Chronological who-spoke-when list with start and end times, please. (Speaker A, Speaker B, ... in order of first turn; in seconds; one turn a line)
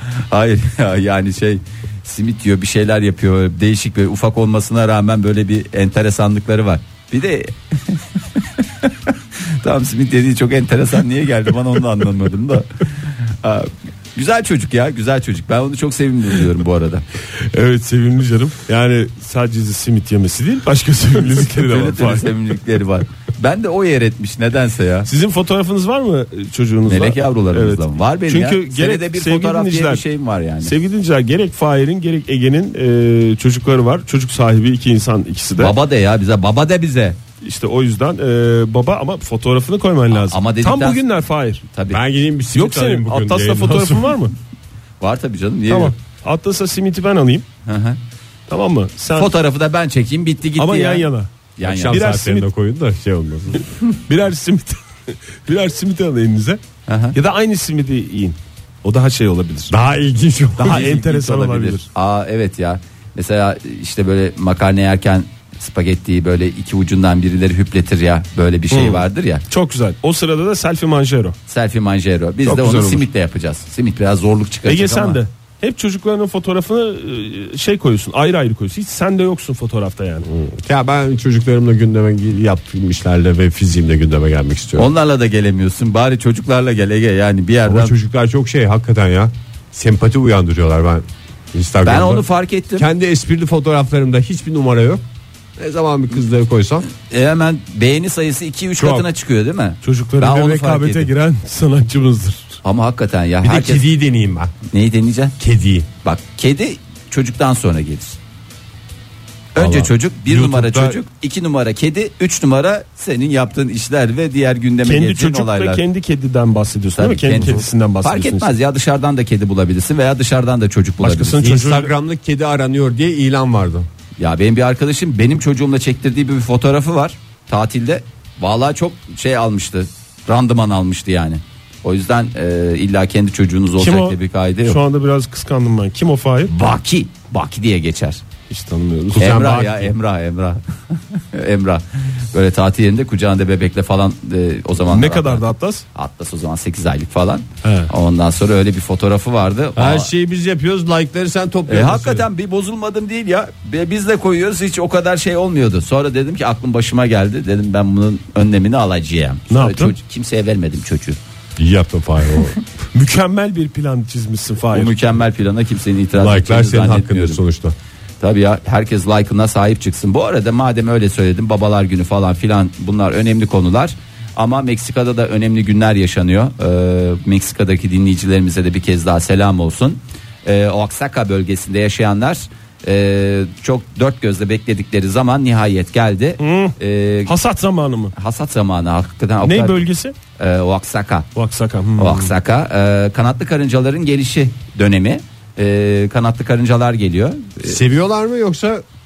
Speaker A: 0.3-17.0
Speaker B: 17.3-22.4
Speaker A: 21.5-25.1
Speaker B: 25.1-30.0
Speaker A: 26.9-30.7
Speaker B: 30.6-35.7
Speaker A: 35.6-37.2
Speaker B: 37.4-41.6
Speaker A: 40.1-41.0
Speaker A: 41.7-42.0
Speaker C: 41.9-44.1
Speaker B: 42.5-44.3
Speaker A: 45.0-45.9
Speaker B: 45.7-47.4
Speaker A: 47.6-48.0
Speaker B: 48.5-49.3
Speaker A: 49.1-52.0
Speaker B: 50.6-51.3
Speaker C: 51.6-53.7
Speaker B: 51.9-52.5
Speaker B: 54.0-56.6
Speaker A: 56.9-57.2
Speaker B: 57.1-59.7
Speaker C: 59.7-61.0
Speaker A: 60.6-69.4
Speaker B: 60.6-61.9
Speaker B: 68.7-71.3
Speaker A: 71.5-75.2
Speaker B: 72.4-73.1
Speaker B: 74.7-80.3
Speaker C: 80.3-84.9
Speaker A: 84.8-87.9
Speaker C: 87.7-95.0
Speaker A: 91.8-92.9
Speaker C: 95.6-96.8
Speaker A: 96.9-101.1
Speaker C: 98.8-99.1
Speaker B: 99.8-102.6
Speaker A: 102.6-103.8
Speaker C: 103.4-104.5
Speaker A: 104.7-105.3
Speaker C: 105.4-105.9
Speaker A: 106.0-108.2
Speaker A: 109.5-115.8
Speaker C: 109.5-111.0
Speaker B: 114.8-118.5
Speaker A: 117.0-121.5
Speaker B: 121.0-121.9
Speaker C: 121.4-123.9
Speaker A: 124.2-134.8
Speaker B: 133.8-136.5
Speaker A: 136.5-138.2
Speaker B: 138.5-139.3
Speaker C: 139.1-139.9
Speaker A: 139.2-145.4
Speaker B: 144.9-145.8
Speaker A: 145.9-150.1
Speaker B: 147.6-147.9
Speaker C: 149.7-152.3
Speaker A: 151.7-161.2
Speaker B: 159.5-159.9
Speaker C: 161.6-162.6
Speaker B: 162.9-165.0
Speaker A: 164.7-167.4
Speaker C: 166.2-167.7
Speaker A: 168.2-187.3
Speaker B: 186.4-188.1
Speaker A: 188.1-189.8
Speaker B: 189.4-190.1
Speaker A: 190.4-191.2
Speaker B: 191.3-192.3
Speaker A: 192.0-197.8
Speaker C: 197.7-198.8